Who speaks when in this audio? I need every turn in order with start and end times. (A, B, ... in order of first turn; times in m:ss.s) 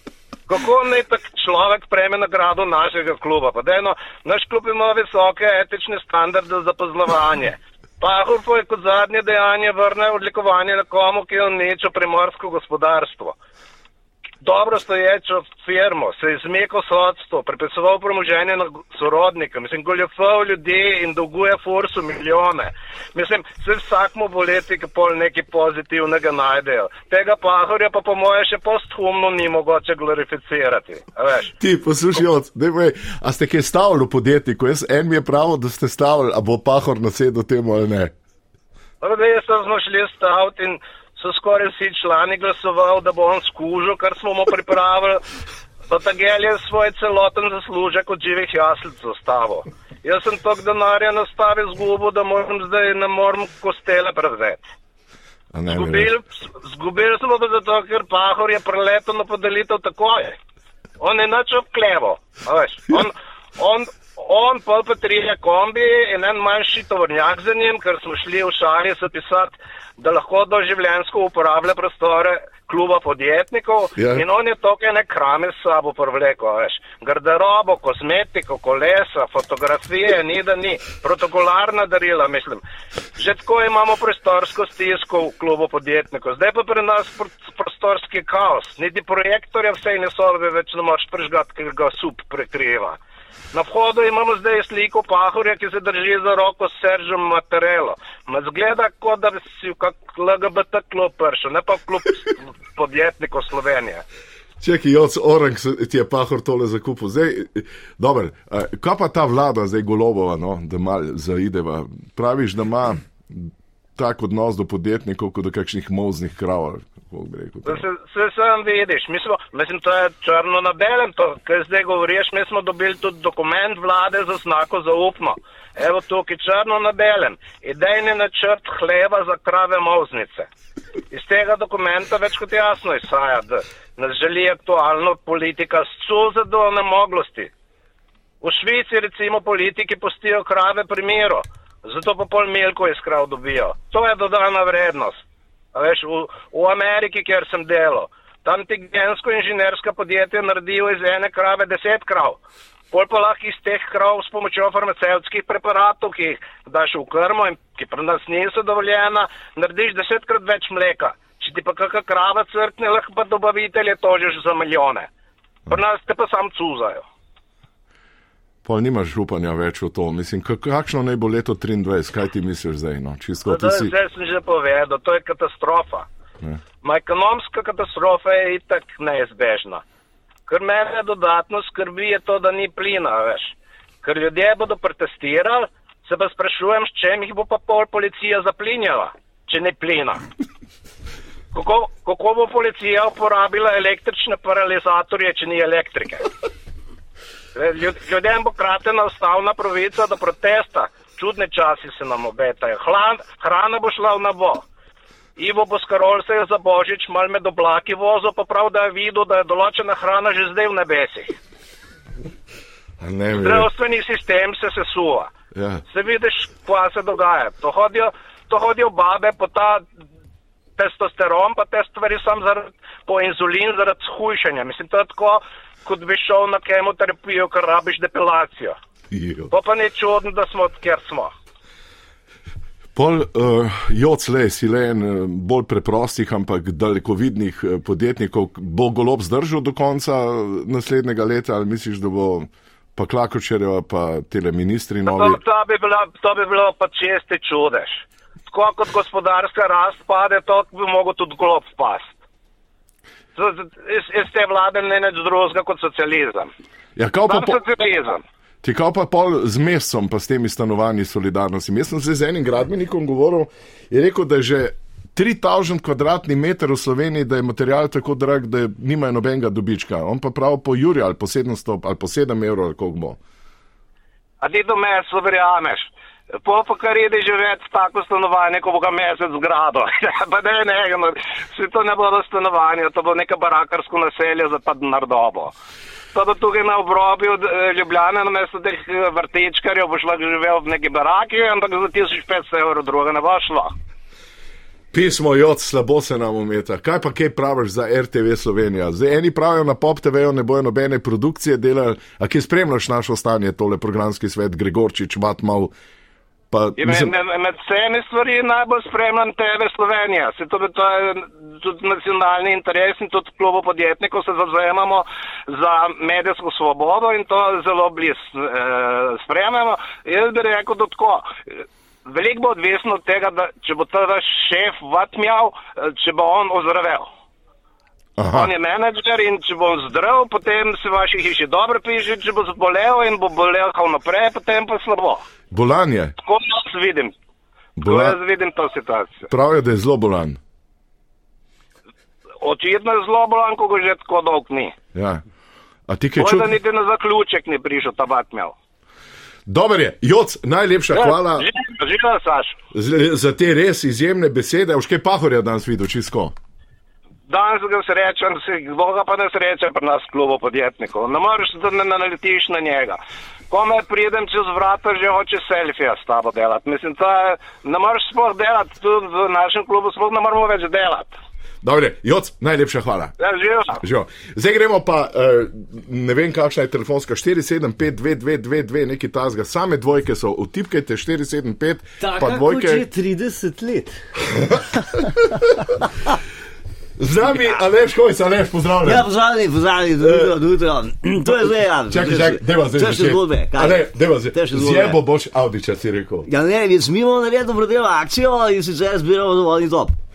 0:00.5-0:13.4 A
0:14.4-0:31.5 A
0:31.6-0:38.1 B
0:39.0-0:45.2 A
0:45.9-0:54.6 A
0:55.5-0:56.1 B
0:55.7-1:00.4 A
1:01.0-1:22.6 A
1:14.0-1:14.2 B
1:23.2-1:33.0 A
1:33.5-1:44.0 A
1:44.6-1:57.8 B
1:57.6-2:10.5 A
2:11.1-2:17.5 A
2:18.4-2:25.2 A
2:25.7-2:32.4 A
2:32.9-2:45.1 A
2:45.7-2:47.0 A
2:48.6-2:53.9 B
2:53.4-2:56.0 A
2:56.8-2:59.8 A
3:00.5-3:10.2 A
3:11.5-3:16.3 A
3:17.5-3:24.6 A
3:25.4-3:31.4 A
3:33.0-3:33.7 B
3:33.4-3:35.3 A
3:35.5-3:35.8 B
3:35.9-3:39.8 A
3:40.8-3:48.8 A
3:49.1-3:49.5 B
3:49.5-3:51.3 A
3:52.9-4:05.4 B
4:05.0-4:12.1 A
4:13.4-4:16.5 A
4:17.0-4:17.6 B
4:17.3-4:18.2 A
4:18.6-4:33.2 B
4:34.4-4:35.9 A
4:36.4-4:45.5 A
4:46.1-4:53.7 A
4:54.9-5:05.7 B
5:06.5-5:07.1 B
5:06.8-5:21.4 A
5:22.0-5:27.1 A
5:28.2-5:28.5 B
5:28.3-5:35.2 A
5:35.5-5:36.1 B
5:36.2-5:37.1 A
5:37.8-5:39.2 A
5:37.8-5:38.2 B
5:39.3-5:40.4 B
5:42.4-5:44.7 A
5:44.9-5:45.2 B
5:45.9-5:46.5 B
5:46.2-5:48.5 A
5:49.5-5:51.5 B
5:50.9-5:52.6 A
5:52.7-5:56.3 B
5:57.3-6:03.0 A
6:03.5-6:11.1 A
6:11.6-6:13.1 B
6:13.2-6:13.8 A
6:13.8-6:22.8 B
6:22.0-6:24.0 C
6:24.3-6:25.4 B
6:27.0-6:29.1 B
6:28.8-6:35.0 C
6:30.0-6:30.4 B
6:31.9-6:36.3 B
6:36.3-6:39.9 C